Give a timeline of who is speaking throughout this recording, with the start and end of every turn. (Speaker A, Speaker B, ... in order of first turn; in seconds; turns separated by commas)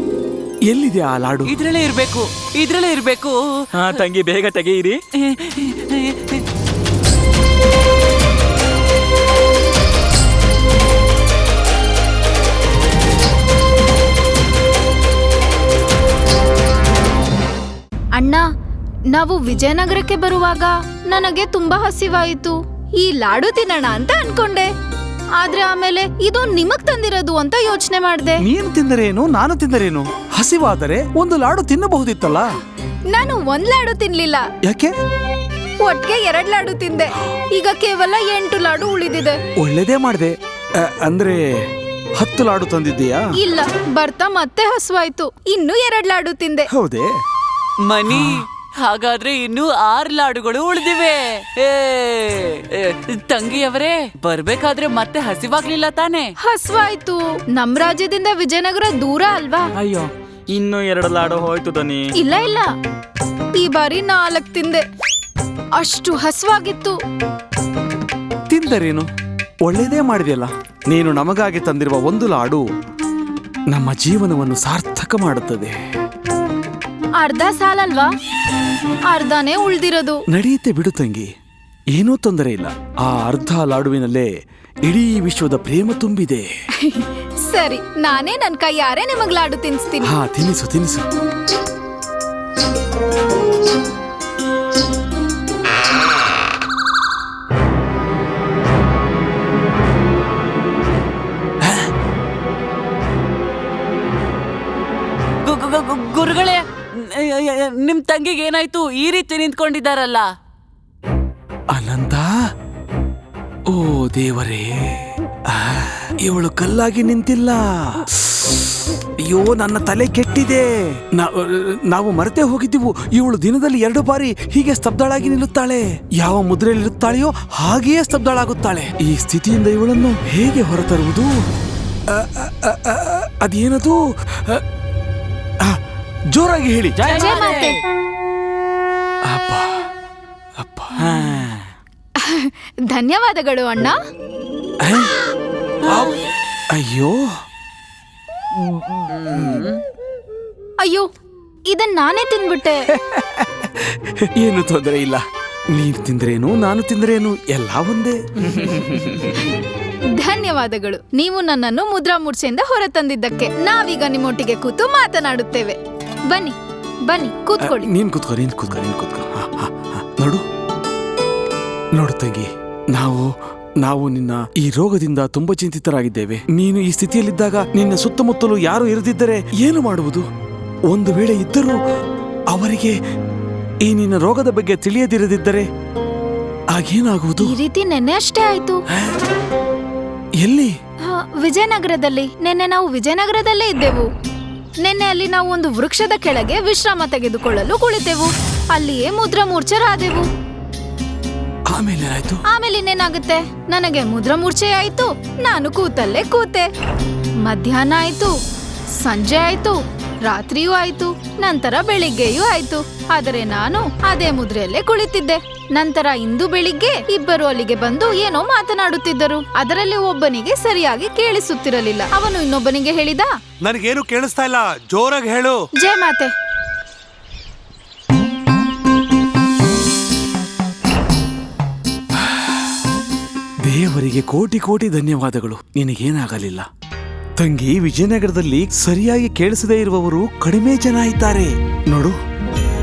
Speaker A: 0.7-1.5, Speaker B: 1.4-3.4, Speaker C: 3.7-5.0, Speaker B: 5.2-6.4, Speaker D: 18.1-18.4, Speaker D: 19.1-24.7, Speaker D: 25.4-28.4, Speaker A: 28.4-32.5, Speaker D: 33.1-34.4, Speaker A: 34.6-34.9, Speaker D: 35.8-39.4, Speaker A: 39.6-41.4, Speaker A: 42.2-43.3, Speaker D: 43.4-46.7, Speaker A: 46.7-47.1, Speaker B: 47.9-56.3, Speaker D: 56.4-59.7, Speaker C: 59.8-62.1, Speaker D: 62.2-62.6, Speaker D: 63.5-64.8, Speaker D: 65.8-67.0, Speaker A: 68.5-69.1, Speaker A: 69.6-72.6, Speaker A: 73.7-75.7, Speaker D: 77.2-78.1, Speaker D: 79.1-80.2, Speaker A: 80.3-81.3, Speaker A: 82.0-84.3, Speaker A: 84.8-86.5, Speaker D: 86.8-90.2, Speaker A: 90.0-91.0, Speaker A: 101.6-101.9, Speaker B: 105.4-110.3, Speaker A: 111.7-112.3, Speaker A: 113.7-131.4, Speaker A: 132.1-134.6, Speaker A: 136.3-137.0, Speaker C: 137.0-137.7, Speaker B: 137.1-137.7, Speaker D: 137.1-137.8, Speaker A: 139.2-139.7, Speaker A: 140.6-141.1, Speaker C: 141.0-141.7, Speaker D: 142.2-143.9, Speaker A: 144.8-145.1, Speaker B: 145.9-146.2, Speaker A: 145.9-146.2, Speaker A: 146.7-147.3, Speaker B: 149.1-149.8, Speaker D: 151.7-152.8, Speaker A: 152.9-155.2, Speaker A: 155.7-159.0, Speaker D: 160.2-165.8, Speaker D: 166.3-166.5, Speaker D: 167.1-167.9, Speaker A: 167.6-170.4, Speaker A: 171.9-173.3, Speaker A: 173.8-180.3, Speaker A: 180.9-181.8, Speaker A: 182.5-182.9, Speaker A: 183.8-185.7, Speaker A: 186.7-187.6, Speaker D: 187.4-188.8, Speaker A: 190.4-190.7, Speaker D: 191.1-194.1, Speaker D: 194.8-200.3, Speaker A: 201.7-202.4, Speaker D: 202.5-206.7, Speaker D: 207.5-208.3, Speaker D: 209.0-223.3, Speaker A: 223.6-225.6, Speaker D: 225.8-226.3, Speaker A: 233.6-236.7, Speaker A: 237.4-242.2